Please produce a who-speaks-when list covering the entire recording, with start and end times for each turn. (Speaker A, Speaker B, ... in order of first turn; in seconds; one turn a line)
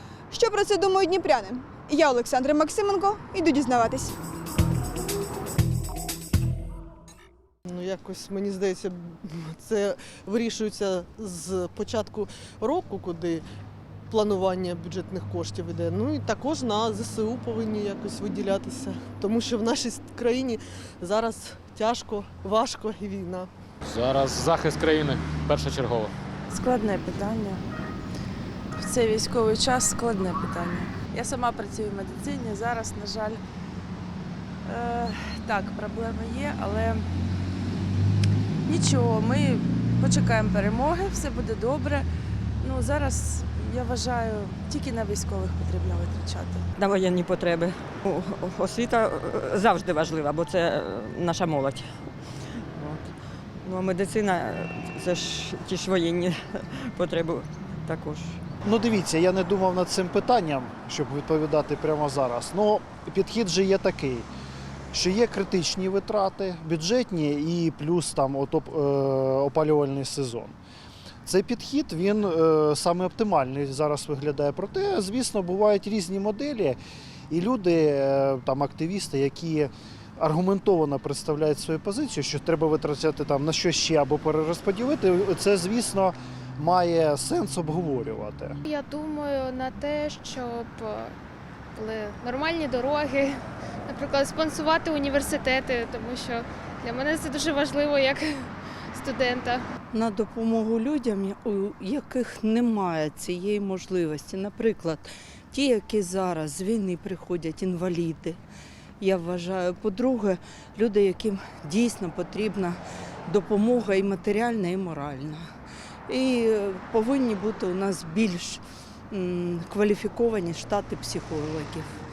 Speaker A: 0.3-4.1
Speaker B: 7.7-13.4
Speaker B: 14.1-23.5
Speaker C: 23.9-26.1
Speaker D: 26.5-27.6
Speaker D: 28.8-33.4
Speaker D: 34.6-37.1
Speaker D: 38.7-42.1
Speaker D: 42.6-46.6
Speaker E: 46.8-53.1
Speaker E: 53.6-58.4
Speaker F: 58.6-64.3
Speaker F: 64.9-70.6
Speaker F: 71.3-76.8
Speaker F: 77.3-88.6
Speaker G: 88.6-91.2
Speaker G: 91.8-99.7
Speaker H: 99.9-108.4
Speaker H: 109.0-115.5
Speaker H: 116.1-121.9